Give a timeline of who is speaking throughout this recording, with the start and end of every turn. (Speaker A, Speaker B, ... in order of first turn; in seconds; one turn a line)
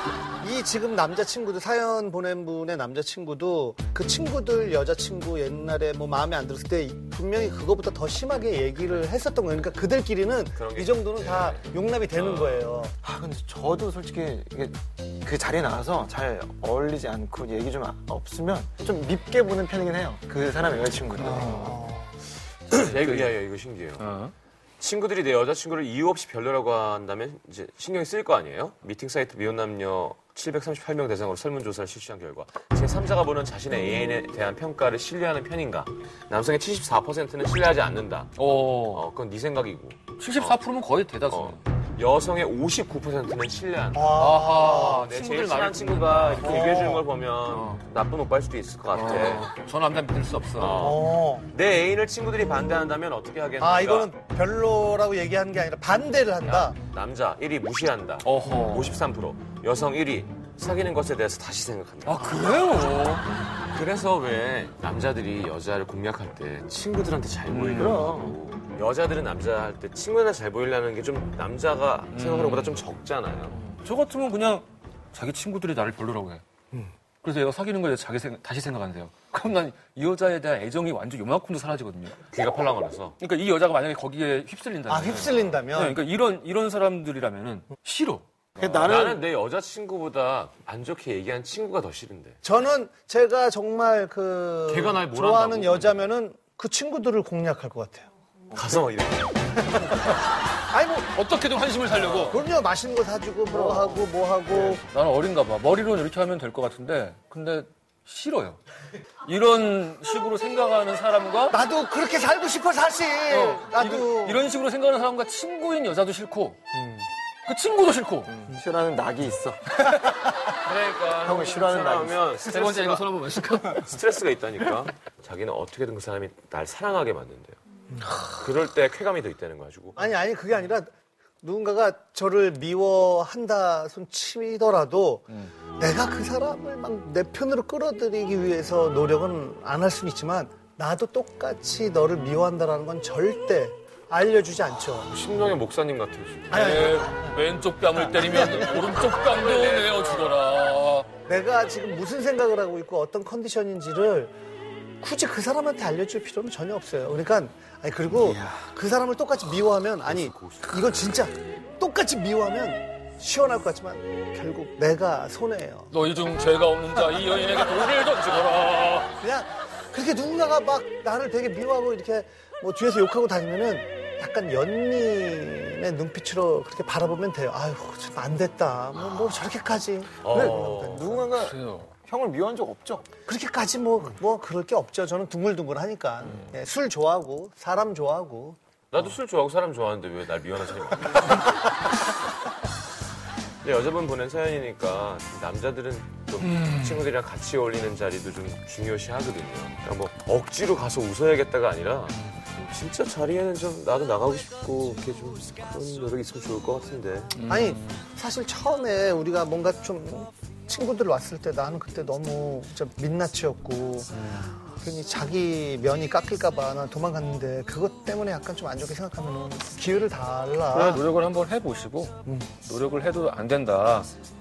Speaker A: 0.4-12.9
Speaker B: 10.5-12.8
Speaker C: 13.0-21.9
Speaker A: 21.1-22.1
Speaker B: 22.7-24.1
Speaker D: 24.0-24.3
Speaker B: 24.8-40.6
Speaker D: 38.4-39.0
Speaker D: 40.2-41.6
Speaker B: 41.3-49.5
Speaker A: 43.9-45.1
Speaker D: 44.1-46.8
Speaker A: 46.4-47.1
Speaker D: 47.5-47.8
Speaker D: 48.9-51.0
Speaker B: 50.6-54.1
Speaker A: 50.7-51.5
Speaker A: 53.6-56.8
Speaker B: 56.4-62.3
Speaker D: 58.2-59.0
Speaker D: 62.0-63.3
Speaker B: 63.7-73.6
Speaker D: 67.5-68.1
Speaker C: 67.8-68.4
Speaker D: 72.1-72.8
Speaker D: 73.7-76.4
Speaker D: 77.2-82.2
Speaker B: 82.3-83.2
Speaker D: 83.2-88.8
Speaker A: 84.9-86.0
Speaker C: 88.6-89.2
Speaker B: 88.8-92.4
Speaker A: 92.4-98.1
Speaker B: 94.7-96.1
Speaker B: 98.5-99.6
Speaker A: 99.8-100.1
Speaker A: 100.7-101.1
Speaker D: 101.1-102.5
Speaker A: 101.9-104.8
Speaker C: 103.5-104.0
Speaker D: 104.6-108.6
Speaker D: 109.2-111.6
Speaker A: 111.5-114.4
Speaker D: 113.3-116.7
Speaker D: 117.5-118.3
Speaker C: 118.3-119.9
Speaker D: 119.8-120.1
Speaker B: 120.5-127.6
Speaker C: 121.2-122.3
Speaker D: 122.4-123.9
Speaker B: 128.3-130.0
Speaker A: 129.9-130.9
Speaker A: 131.4-145.1
Speaker B: 144.9-146.7
Speaker A: 146.5-149.0
Speaker D: 146.5-151.1
Speaker B: 149.0-150.3
Speaker A: 151.2-154.3
Speaker A: 155.0-165.9
Speaker C: 158.2-158.7
Speaker B: 160.0-161.3
Speaker D: 165.9-169.1
Speaker A: 169.2-181.3
Speaker B: 180.2-181.3
Speaker C: 180.2-183.1
Speaker D: 181.4-181.9
Speaker A: 183.2-188.6
Speaker B: 188.9-191.5
Speaker B: 193.6-207.3
Speaker D: 207.3-208.0
Speaker A: 207.5-221.0
Speaker D: 214.1-214.5
Speaker D: 220.7-224.1